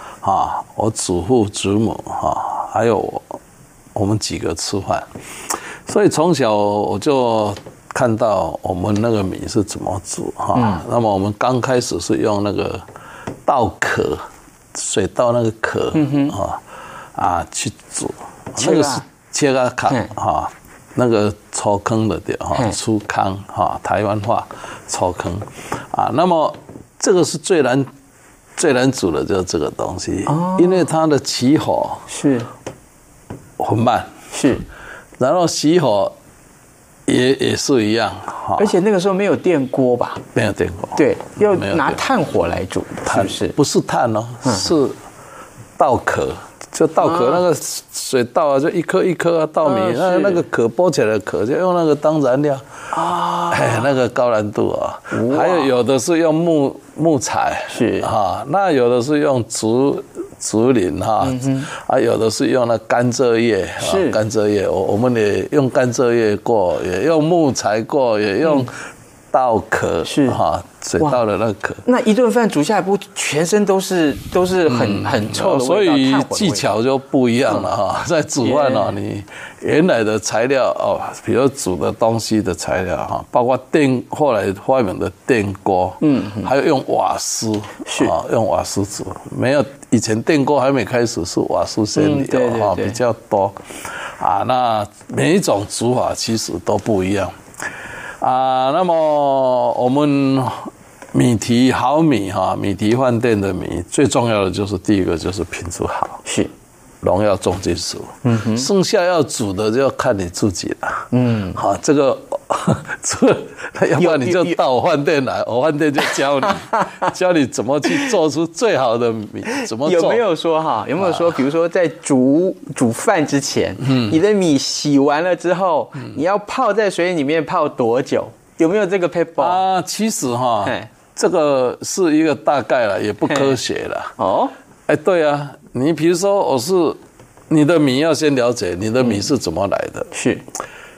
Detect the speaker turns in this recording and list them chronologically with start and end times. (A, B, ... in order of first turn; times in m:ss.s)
0:00.2-0:03.4 A
0:03.9-0:12.8 A
0:10.5-0:10.8 B
0:13.4-0:16.6 A
0:15.9-0:16.4 B
0:17.1-0:27.9 A
0:18.6-0:19.0 B
0:28.6-0:32.1 A
0:30.3-0:30.8 B
0:32.1-0:32.5 B
0:33.6-0:34.1 A
0:34.3-0:34.6 B
0:35.2-0:36.1 A
0:37.1-0:38.7 A
0:38.6-0:40.2 B
0:40.3-0:42.0 A
0:41.0-0:43.6 B
0:43.0-0:45.0 A
0:44.4-0:44.7 B
0:45.8-0:52.6 A
0:47.0-0:47.4 B
0:49.6-0:50.4 B
0:52.9-0:53.9 B
0:53.5-1:08.8 A
0:55.1-0:55.7 B
0:57.7-0:58.1 B
1:01.2-1:01.7 B
1:03.8-1:04.2 B
1:09.3-1:11.8 A
1:10.0-1:10.4 B
1:11.8-1:16.7 B
1:14.7-1:37.4 A
1:18.4-1:18.9 B
1:26.0-1:26.5 B
1:27.9-1:28.1 B
1:32.0-1:33.0 B
1:38.2-1:46.2 A
1:46.2-1:46.5 B
1:47.0-2:00.2 A
1:48.2-1:48.7 B
1:51.1-1:51.6 B
1:54.0-1:54.6 B
1:59.5-2:09.6 B
2:01.0-2:01.4 A
2:09.4-2:14.1 A
2:10.6-2:10.9 B
2:13.3-2:13.6 B
2:14.2-2:14.5 B
2:14.9-2:20.1 A
2:20.1-2:20.4 B